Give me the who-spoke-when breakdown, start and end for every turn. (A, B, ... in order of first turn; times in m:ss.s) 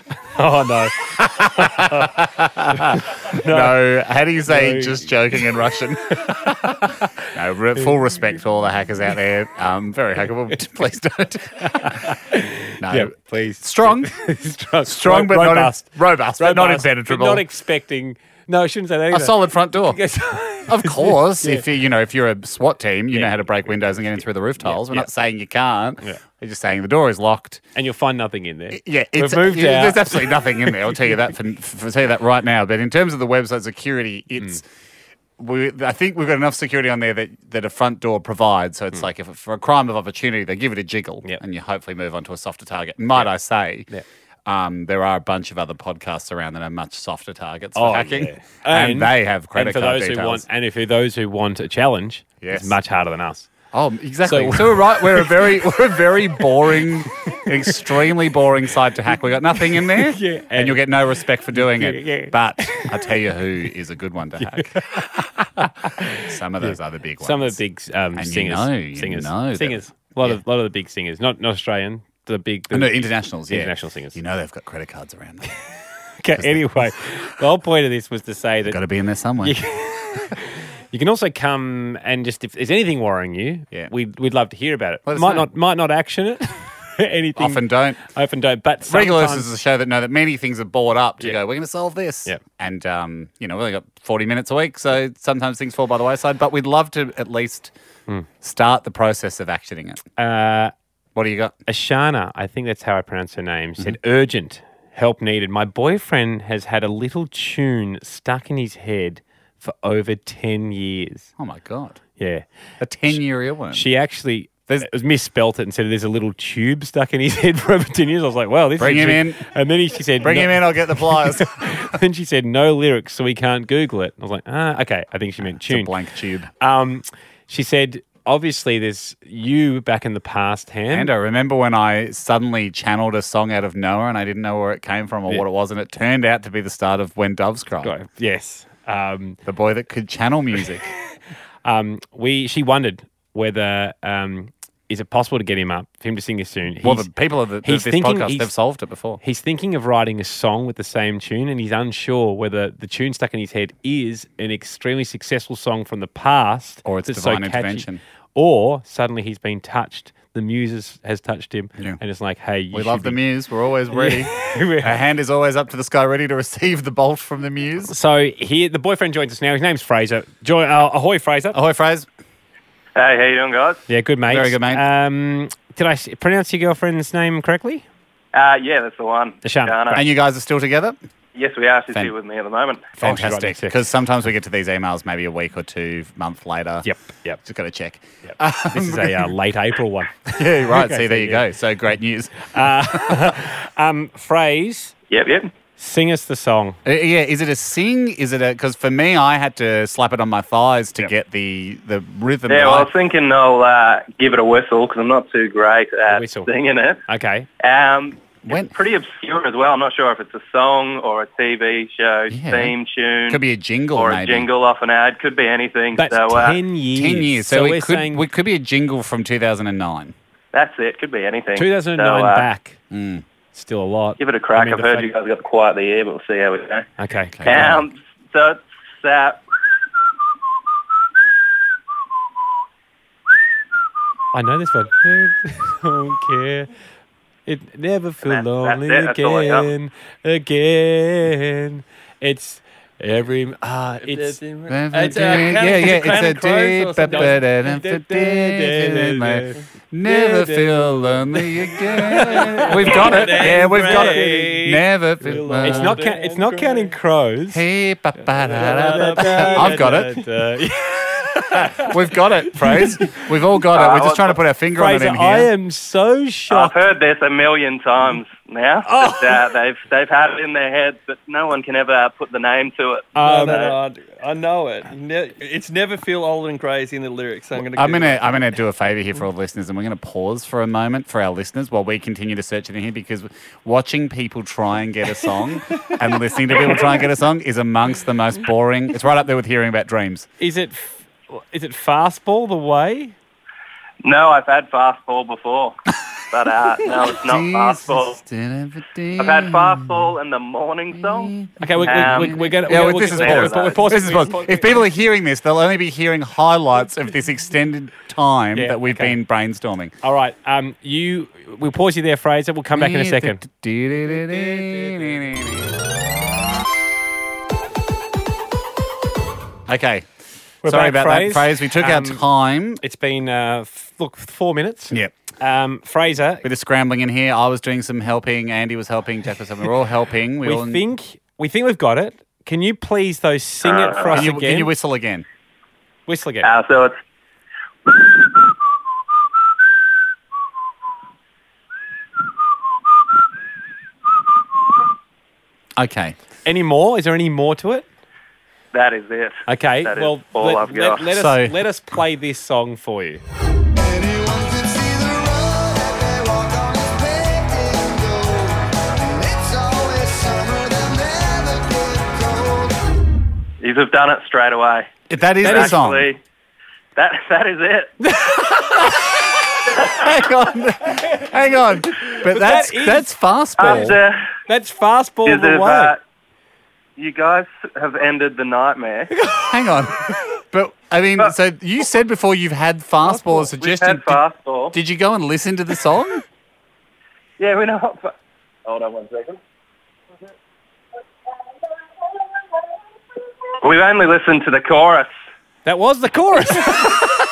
0:00.3-0:02.1 A
0:01.2-0:12.2 B
0:02.8-0:03.8 A
0:04.4-0:05.1 A
0:11.6-0:21.6 A
0:12.8-0:14.1 B
0:14.8-0:17.4 B
0:19.1-0:20.0 B
0:20.6-0:27.6 B
0:23.1-0:25.1 A
0:27.7-0:31.1 A
0:28.7-0:34.6 B
0:35.4-0:43.9 B
0:44.4-0:50.4 B
0:47.7-0:53.5 A
0:52.4-0:52.8 B
0:53.7-1:07.6 B
0:54.2-0:55.5 A
0:59.8-1:00.8 A
1:01.5-1:02.9 A
1:04.4-1:14.2 A
1:08.1-1:10.4 B
1:12.7-1:15.5 B
1:16.2-1:18.8 A
1:16.3-1:16.9 B
1:18.6-1:19.6 B
1:19.4-1:29.5 A
1:25.0-1:25.5 B
1:27.4-1:28.0 B
1:28.8-1:37.7 B
1:38.4-1:40.0 B
1:40.2-1:40.7 A
1:41.1-1:41.5 B
1:41.7-1:51.3 A
1:51.4-1:52.0 B
1:52.2-1:52.4 A
1:52.8-1:53.9 B
1:53.7-2:05.9 A
1:58.8-1:59.4 B
2:00.2-2:01.9 B
2:05.4-2:06.5 B
2:06.6-2:11.1 A
2:10.9-2:17.9 B
2:17.8-2:19.4 A
2:19.4-2:20.9 B
2:21.6-2:27.1 A
2:26.8-2:29.2 B
2:27.6-2:28.5 A
2:29.2-2:43.2 A
2:36.8-2:38.0 B
2:42.7-2:47.9 B
2:43.9-2:45.0 A
2:47.9-2:51.6 A
2:51.5-2:52.1 B
2:53.0-2:53.8 C
2:53.9-2:57.8 A
2:54.3-2:54.8 B
2:58.3-3:00.0 C
2:59.4-3:00.0 A
2:59.9-3:01.0 B
3:01.3-3:02.9 C
3:03.0-3:06.9 B
3:03.0-3:03.8 A
3:06.8-3:07.4 A
3:07.4-3:09.3 B
3:08.2-3:11.4 A
3:10.3-3:13.3 B
3:12.4-3:14.9 A
3:15.1-3:15.5 C
3:15.8-3:16.8 A
3:16.8-3:22.9 B
3:22.5-3:27.0 C
3:26.1-3:26.5 A
3:27.1-3:27.5 A
3:27.6-3:33.4 C
3:28.4-3:28.7 B
3:32.3-3:32.7 B
3:33.2-3:34.5 B
3:33.9-3:36.6 C
3:35.9-3:38.2 A
3:36.9-3:40.1 B
3:40.5-3:42.5 C
3:41.6-3:42.8 A
3:42.9-3:43.2 B
3:43.5-3:45.1 A
3:44.2-3:46.9 C
3:47.0-3:47.8 A
3:47.3-3:47.8 B
3:47.4-3:49.4 C
3:54.3-3:56.7 A
3:57.4-4:04.4 A
3:58.2-3:59.7 C
4:04.0-4:07.4 D
4:04.7-4:16.0 B
4:05.0-4:05.6 A
4:07.1-4:11.4 A
4:12.0-4:14.6 A
4:12.0-4:16.9 D
4:15.6-4:17.6 A
4:17.5-4:20.2 B
4:18.5-4:20.2 D
4:18.5-4:21.9 A
4:21.5-4:25.5 B
4:22.6-4:23.1 A
4:23.7-4:24.4 C
4:24.8-4:26.8 A
4:26.5-4:33.7 C
4:28.8-4:29.4 A
4:33.1-4:33.6 A
4:33.2-4:38.4 D
4:37.6-4:50.3 B
4:50.4-4:53.1 A
4:54.0-4:55.7 C
4:56.3-4:58.2 C
4:56.9-5:00.1 B
4:59.2-5:03.9 C
5:00.9-5:09.9 B
5:01.6-5:04.8 A
5:08.5-5:09.2 A
5:10.0-5:13.4 A
5:12.7-5:15.7 B
5:14.2-5:15.2 A
5:19.7-5:20.1 B
5:20.6-5:22.2 A
5:20.6-5:22.8 B
5:22.8-5:26.4 A
5:26.4-5:30.8 B
5:30.4-5:34.7 A
5:33.6-5:34.2 C
5:34.1-5:35.2 B
5:36.1-5:36.5 A
5:36.4-5:37.0 C
5:45.8-5:46.2 B
5:46.4-5:47.8 A
5:48.7-5:51.0 C
5:49.5-5:53.2 A
5:51.1-5:51.6 B
6:03.6-6:04.9 C
6:05.1-6:06.1 B
6:05.4-6:05.8 A
6:05.4-6:06.2 C
6:07.0-6:07.9 C
6:08.0-6:09.0 A
6:09.7-6:14.0 B
6:12.0-6:13.1 A
6:13.6-6:14.2 C
6:13.6-6:13.8 A
6:14.5-6:16.0 A
6:15.2-6:16.0 C
6:17.0-6:19.1 C
6:19.1-6:19.5 A
6:19.4-6:24.2 B
6:23.0-6:23.4 A
6:23.6-6:24.7 C
6:24.7-6:26.2 B
6:27.4-6:28.1 C
6:28.6-6:29.4 C
6:33.6-6:35.1 C
6:35.6-6:37.1 A